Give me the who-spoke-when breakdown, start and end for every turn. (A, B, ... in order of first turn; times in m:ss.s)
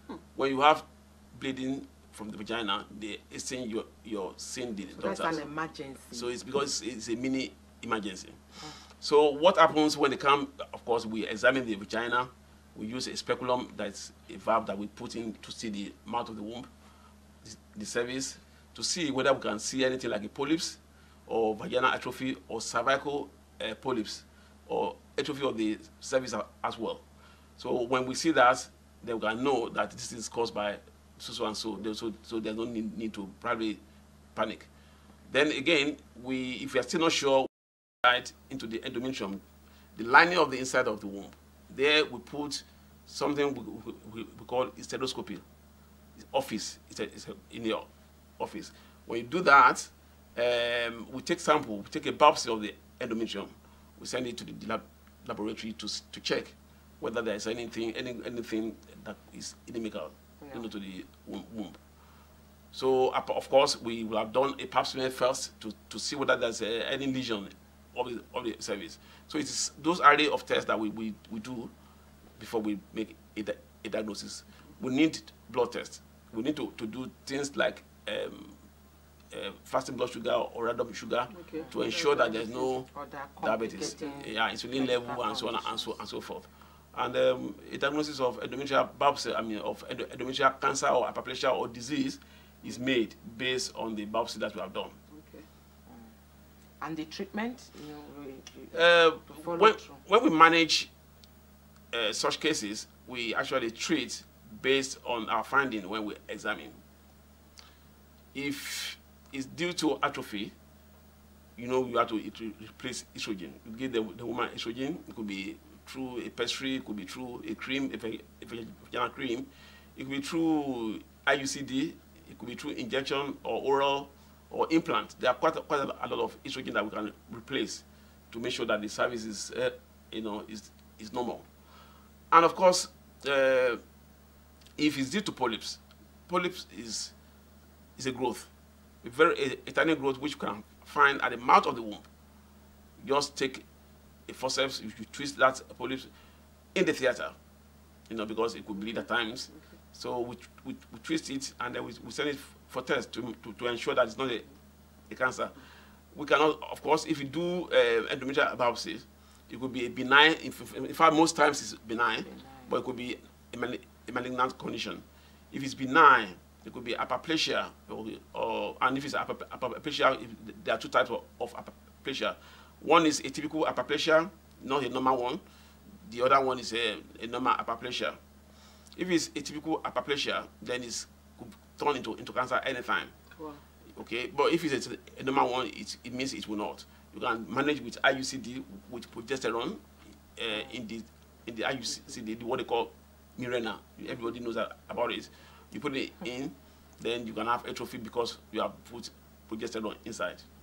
0:00.4-0:05.4 A
0:05.0-0:05.4 B
0:05.0-0:06.3 C
0:06.1-0:16.7 A
0:17.4-0:27.0 A
0:27.6-0:33.8 A
0:34.4-0:34.7 A
0:35.3-0:37.5 A
0:38.0-0:39.4 A
0:40.0-0:45.4 A
0:46.2-0:47.9 A
0:48.4-1:01.8 A
1:00.4-1:00.7 C
1:02.7-1:11.7 A
1:12.4-1:18.6 A
1:19.3-1:22.9 A
1:21.3-1:22.4 B
1:21.6-1:26.0 C
1:23.4-1:35.0 A
1:23.8-1:24.2 B
1:35.1-1:35.5 B
1:36.8-1:40.0 C
1:38.7-1:40.9 A
1:41.9-1:46.8 A
1:48.3-1:50.5 A
1:51.6-2:11.4 A
2:12.3-2:13.8 A
2:14.8-2:17.1 A
2:18.0-2:18.5 A
2:19.0-2:22.0 A
2:23.0-2:23.6 A
2:24.3-2:26.1 A
2:26.8-2:27.4 A
2:28.1-2:34.5 A
2:35.1-2:35.6 A
2:36.1-2:55.4 A
2:42.3-2:42.7 C
2:56.0-2:58.2 A
2:59.0-3:03.1 A
3:03.4-3:03.6 B
3:04.0-3:09.8 A
3:10.4-3:20.4 A